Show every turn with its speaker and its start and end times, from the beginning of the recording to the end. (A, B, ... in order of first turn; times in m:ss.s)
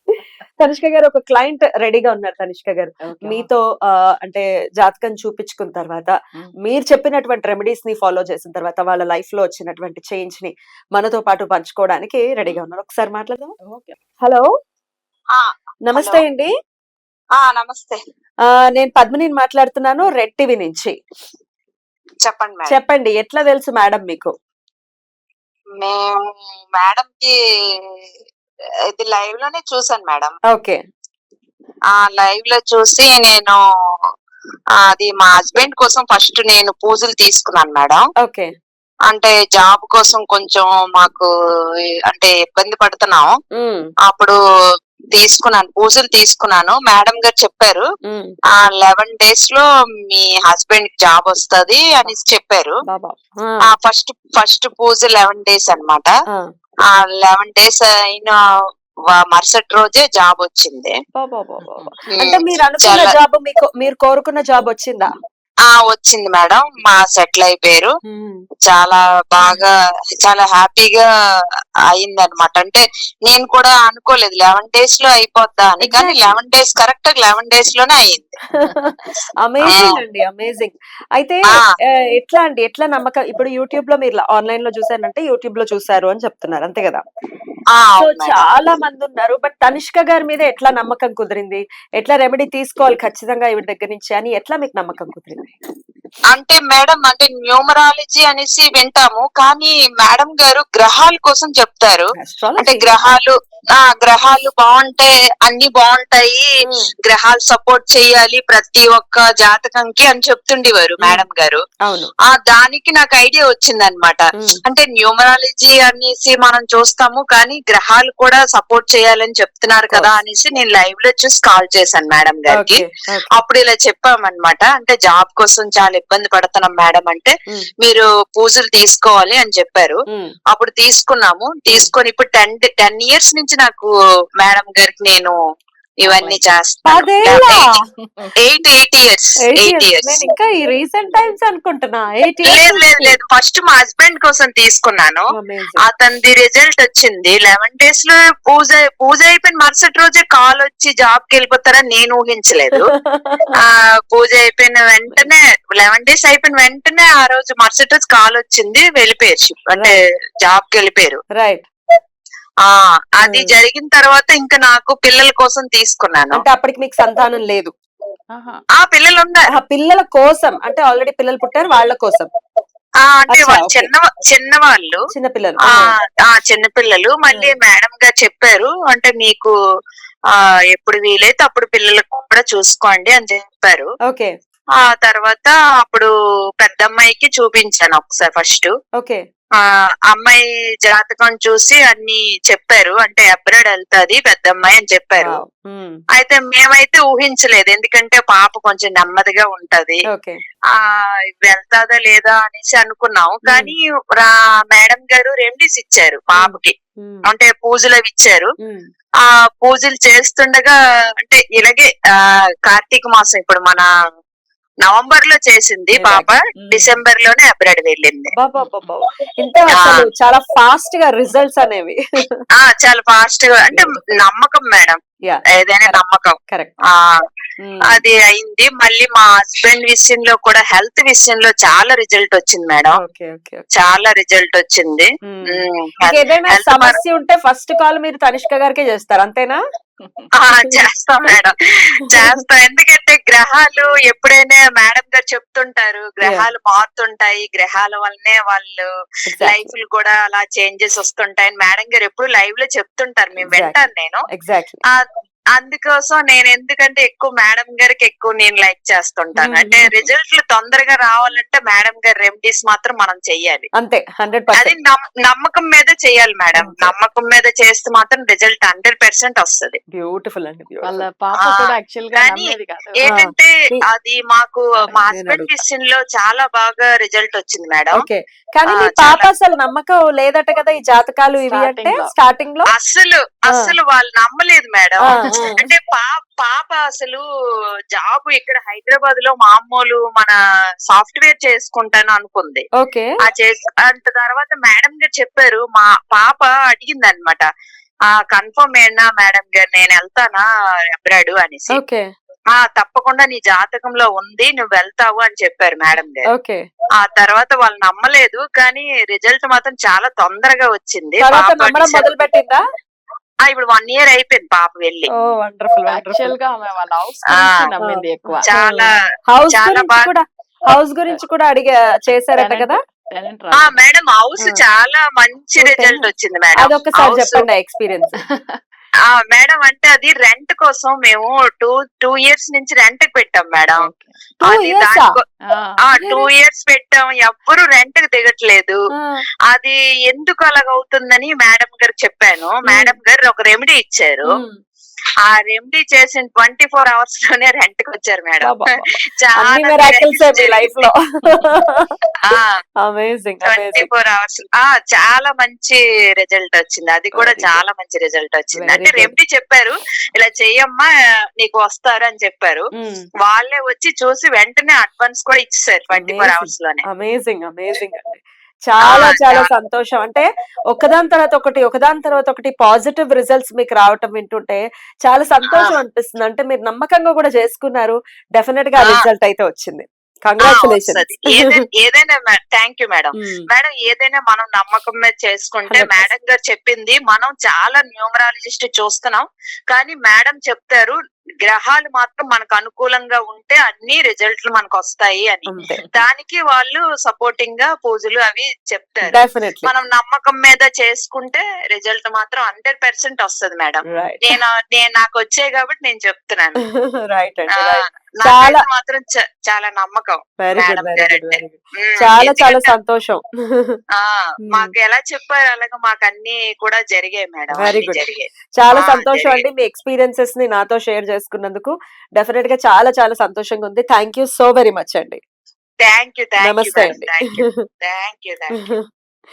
0:00.6-0:13.5 A
0:03.0-0:03.5 B
0:13.6-0:14.0 B
0:14.2-0:14.5 A
0:15.4-0:16.2 C
0:15.9-0:16.5 A
0:17.4-0:18.0 C
0:18.7-0:21.0 A
0:22.2-0:22.8 C
0:22.7-0:24.3 A
0:25.8-0:27.3 C
0:28.9-0:30.4 C
0:30.5-0:30.8 A
0:31.9-0:33.6 C
0:34.8-0:38.1 C
0:38.2-0:38.5 A
0:39.1-0:41.3 C
0:42.1-0:43.4 C
0:43.5-0:43.8 A
0:44.1-0:44.4 C
0:45.1-0:47.8 C
0:48.1-0:48.3 A
0:48.5-0:52.8 C
0:52.9-0:53.7 A
0:53.6-0:56.1 C
0:56.9-0:58.4 C
0:59.1-1:00.9 C
1:01.2-1:05.1 A
1:01.6-1:01.9 B
1:02.1-1:03.2 C
1:05.7-1:07.9 C
1:08.0-1:08.4 A
1:08.7-1:11.0 C
1:11.9-1:18.4 C
1:15.8-1:16.4 A
1:18.5-1:18.9 A
1:19.4-1:27.0 A
1:19.7-1:20.0 C
1:27.7-1:28.4 C
1:28.0-1:35.5 A
1:36.3-1:46.4 C
1:42.2-1:43.0 A
1:46.6-1:46.9 A
1:47.0-1:51.6 C
1:51.8-1:52.1 A
1:52.2-2:02.8 C
2:02.5-2:03.4 A
2:03.4-2:10.0 C
2:10.5-2:15.4 C
2:16.0-2:17.6 C
2:16.0-2:16.4 B
2:16.8-2:17.8 A
2:18.0-2:18.3 B
2:18.4-2:20.3 C
2:19.4-2:23.2 A
2:22.5-2:25.3 C
2:25.3-2:25.8 A
2:25.8-2:32.9 C
2:32.9-2:33.5 A
2:33.6-2:41.2 C
2:41.4-2:41.6 A
2:42.6-2:46.4 C
2:43.2-2:43.6 A
2:46.3-2:47.7 A
2:48.3-2:48.6 B
2:48.8-2:49.4 C
2:49.5-2:52.3 A
2:53.0-2:55.0 C
2:53.3-2:53.9 A
2:55.1-2:55.9 A
2:55.7-2:59.5 C
3:00.3-3:03.9 C
3:04.8-3:08.7 C
3:09.6-3:15.3 C
3:15.2-3:16.0 A
3:16.2-3:20.0 C
3:20.1-3:20.4 A
3:21.4-3:26.7 C
3:23.4-3:23.7 A
3:26.3-3:27.2 A
3:27.3-3:28.5 C
3:29.2-3:33.9 C
3:34.8-3:38.3 C
3:35.9-3:36.3 A
3:36.6-3:36.9 B
3:38.3-3:42.4 A
3:38.6-3:38.9 B
3:39.7-3:40.0 C
3:42.6-3:45.0 C
3:45.2-3:46.7 A
3:45.5-3:46.4 C
3:46.9-3:47.2 C
3:47.6-3:48.0 A
3:47.9-3:53.0 C
3:52.9-3:53.7 A
3:53.7-3:57.0 C
3:55.3-3:59.6 A
4:00.0-4:00.3 B
4:00.4-4:08.9 C
4:02.1-4:02.4 A
4:06.2-4:06.5 A
4:09.3-4:09.6 A
4:09.4-4:14.2 C
4:13.4-4:13.8 A
4:14.3-4:14.8 A
4:15.6-4:23.7 C
4:19.4-4:20.0 A
4:23.8-4:24.7 A
4:24.5-4:29.8 C
4:26.5-4:26.9 A
4:29.9-4:31.1 A
4:30.8-4:33.1 B
4:31.4-4:38.0 C
4:33.0-4:33.8 A
4:35.1-4:35.6 A
4:37.9-4:42.7 A
4:38.7-4:39.3 C
4:41.4-4:42.1 B
4:42.7-4:47.2 C
4:45.0-4:45.6 A
4:47.9-4:50.4 C
4:50.9-4:52.6 C
4:52.8-4:53.1 A
4:53.2-4:57.4 C
4:58.1-5:00.4 C
5:01.0-5:01.8 C
5:01.7-5:02.0 A
5:02.5-5:06.3 C
5:06.3-5:06.6 A
5:07.0-5:12.2 C
5:11.2-5:12.6 A
5:13.4-5:15.1 C
5:15.1-5:16.4 A
5:15.9-5:18.5 B
5:17.3-5:17.7 C
5:17.8-5:22.8 A
5:18.4-5:18.9 C
5:19.5-5:20.1 C
5:22.4-5:23.8 B
5:23.6-5:27.4 C
5:25.6-5:28.2 A
5:29.1-5:33.9 C
5:33.8-5:34.1 B
5:34.4-5:35.1 A
5:34.4-5:35.2 C
5:35.5-5:35.9 B
5:35.9-5:38.8 C
5:36.0-5:36.3 A
5:38.9-5:39.2 A
5:39.5-5:44.3 C
5:42.7-5:42.9 A
5:44.3-5:44.6 A
5:45.2-5:48.5 C
5:48.4-5:51.9 A
5:49.1-5:50.9 C
5:52.2-5:52.5 C
5:52.8-5:53.9 A
5:53.4-6:00.9 C
5:57.2-5:57.6 A
5:58.5-5:59.1 A
6:01.4-6:02.7 C
6:02.7-6:03.0 A
6:03.2-6:06.8 C
6:05.9-6:21.6 A
6:08.8-6:09.5 C
6:15.4-6:15.8 C
6:18.8-6:19.0 C
6:20.4-6:46.6 C
6:23.2-6:23.4 A
6:25.7-6:26.1 A
6:35.5-6:35.8 A
6:39.1-6:39.7 A
6:43.9-6:44.3 A
6:46.7-6:48.6 A
6:47.5-6:52.7 C
6:50.4-6:53.8 A
6:54.0-6:59.4 C
6:54.4-6:54.7 A
6:57.5-6:58.0 A
6:58.6-7:05.2 A
7:05.8-7:08.6 C
7:06.4-7:07.6 A
7:08.6-7:08.8 A